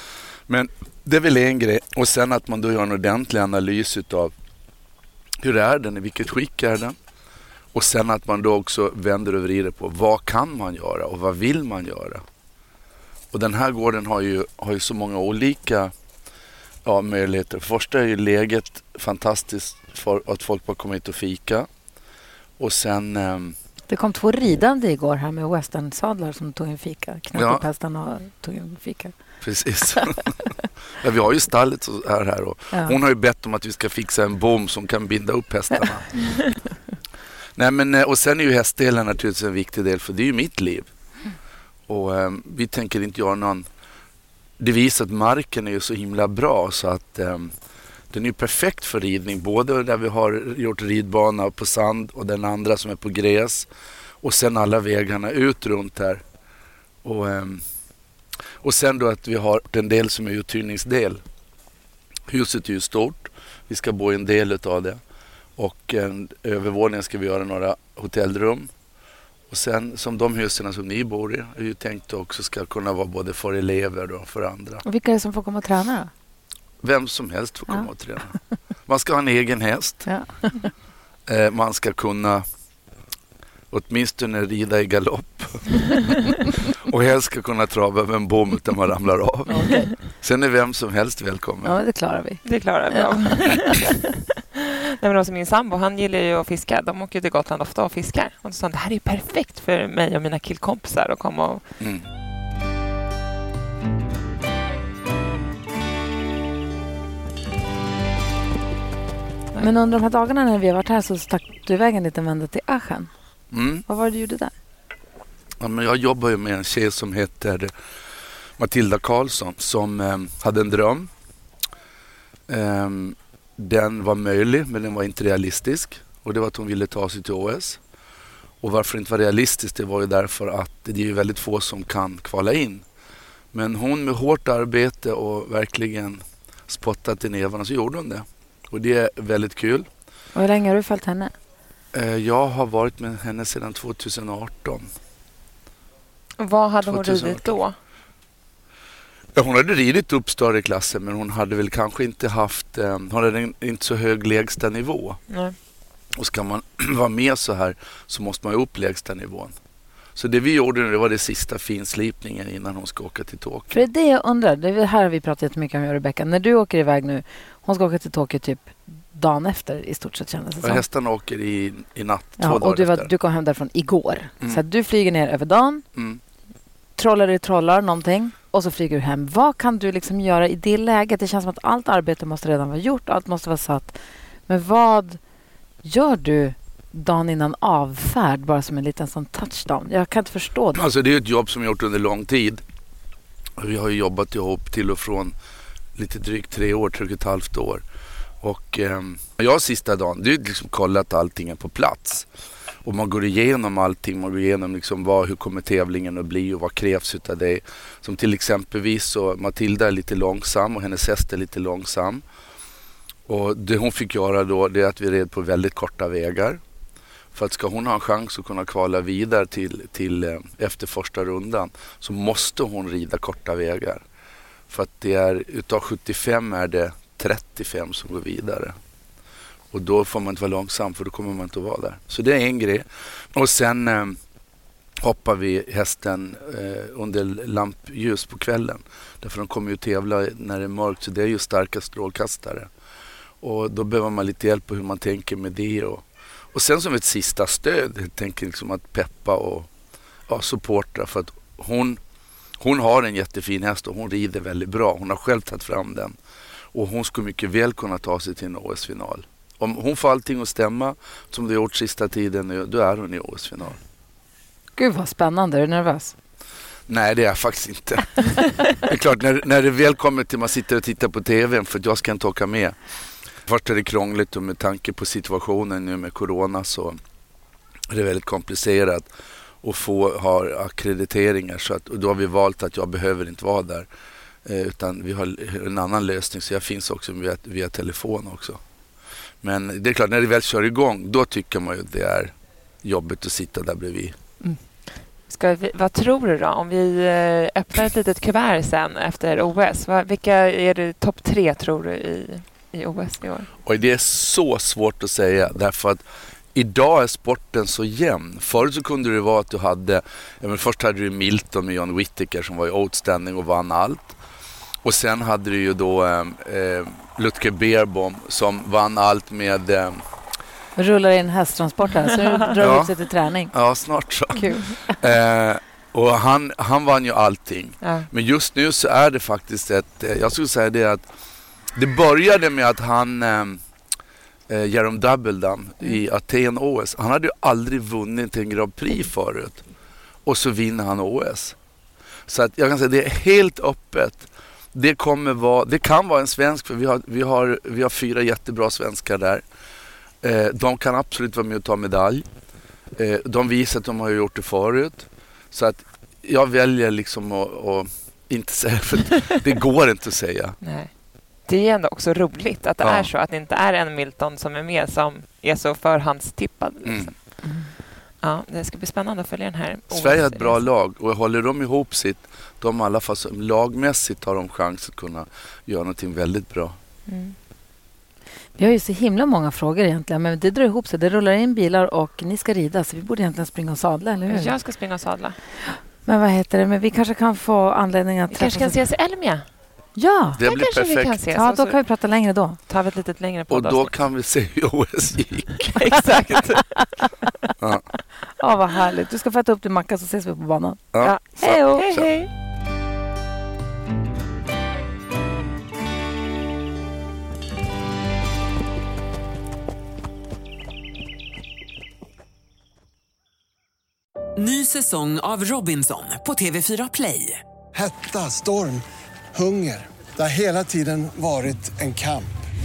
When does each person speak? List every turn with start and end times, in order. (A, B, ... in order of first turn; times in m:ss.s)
0:00.5-0:04.3 A
0:05.4-0:07.0 A
0:07.7-0:12.2 A
0:13.3-0:15.9 A
0:16.8-0:21.7 A
0:22.6-0:23.6 A
0:23.9-0:29.1 B
0:27.3-0:27.6 A
0:29.4-0:30.4 A
0:31.0-0:36.4 A
0:32.7-0:33.0 B
0:37.6-0:40.9 A
0:41.9-0:43.7 A
0:44.6-0:47.5 A
0:48.1-0:53.7 A
0:54.2-0:56.2 A
0:57.0-0:57.6 A
0:58.6-1:01.2 A
1:02.3-1:05.0 A
1:05.6-1:08.7 A
1:09.5-1:14.8 A
1:14.8-1:16.1 B
1:16.8-1:20.1 A
1:17.7-1:18.6 B
1:20.0-1:20.7 B
1:21.3-1:22.4 A
1:23.7-1:31.8 A
1:29.5-1:29.9 B
1:31.6-1:33.2 B
1:32.4-1:34.2 C
1:35.0-1:41.6 C
1:41.8-1:42.1 A
1:49.6-1:53.1 B
1:53.5-1:53.8 A
1:53.8-1:54.5 B
1:55.6-1:57.7 A
1:58.6-2:01.1 A
2:02.5-2:07.8 A
2:08.6-2:12.8 A
2:13.5-2:19.9 A
2:20.3-2:21.3 B
2:21.9-2:24.9 A
2:26.4-2:27.8 C
2:26.9-2:27.6 A
2:29.4-2:35.2 A
2:35.3-2:35.6 C
2:36.2-2:39.6 A
2:40.2-2:43.8 A
2:43.7-2:50.8 B
2:50.6-2:53.1 A
2:52.4-2:55.8 B
2:56.0-2:56.2 A
2:57.0-3:05.2 B
3:05.8-3:10.8 B
3:10.8-3:12.6 A
3:13.6-3:15.3 A
3:16.0-3:17.8 A
3:18.4-3:22.3 A
3:22.8-3:32.2 A
3:33.3-3:36.6 A
3:37.3-3:44.0 A
3:44.7-3:48.8 A
3:49.7-3:54.2 A
3:55.0-4:02.7 A
4:03.4-4:09.7 A
4:10.3-4:12.0 A
4:12.6-4:16.2 A
4:16.7-4:23.8 A
4:24.8-4:26.2 B
4:26.9-4:32.8 A
4:33.5-4:37.0 A
4:37.9-4:39.1 A
4:39.6-4:43.9 A
4:44.4-4:48.6 A
4:49.4-4:54.2 A
4:55.1-5:03.5 C
5:03.6-5:06.0 A
5:06.5-5:14.2 A
5:14.8-5:20.0 A
5:20.8-5:23.5 B
5:22.6-5:23.0 A
5:23.5-5:31.0 A
5:24.3-5:25.1 B
5:27.8-5:28.1 C
5:31.8-5:33.6 A
5:34.5-5:39.6 A
5:40.2-5:41.6 A
5:42.3-5:49.4 A
5:50.2-5:52.3 A
5:53.0-6:00.6 A
6:00.6-6:07.5 C
6:02.8-6:03.1 A
6:06.8-6:07.1 A
6:07.4-6:07.7 B
6:08.2-6:10.7 C
6:09.9-6:16.8 A
6:17.1-6:17.4 C
6:18.6-6:24.6 B
6:24.3-6:25.4 C
6:25.6-6:28.8 B
6:28.3-6:29.5 C
6:30.0-6:30.4 B
6:30.4-6:31.2 A
6:30.4-6:34.0 C
6:31.3-6:32.6 B
6:33.5-6:36.0 A
6:35.7-6:37.1 C
6:37.6-6:37.9 A
6:38.4-6:41.9 B
6:40.9-6:42.1 A
6:41.0-6:42.3 C
6:54.4-6:57.4 D
6:57.7-7:02.3 E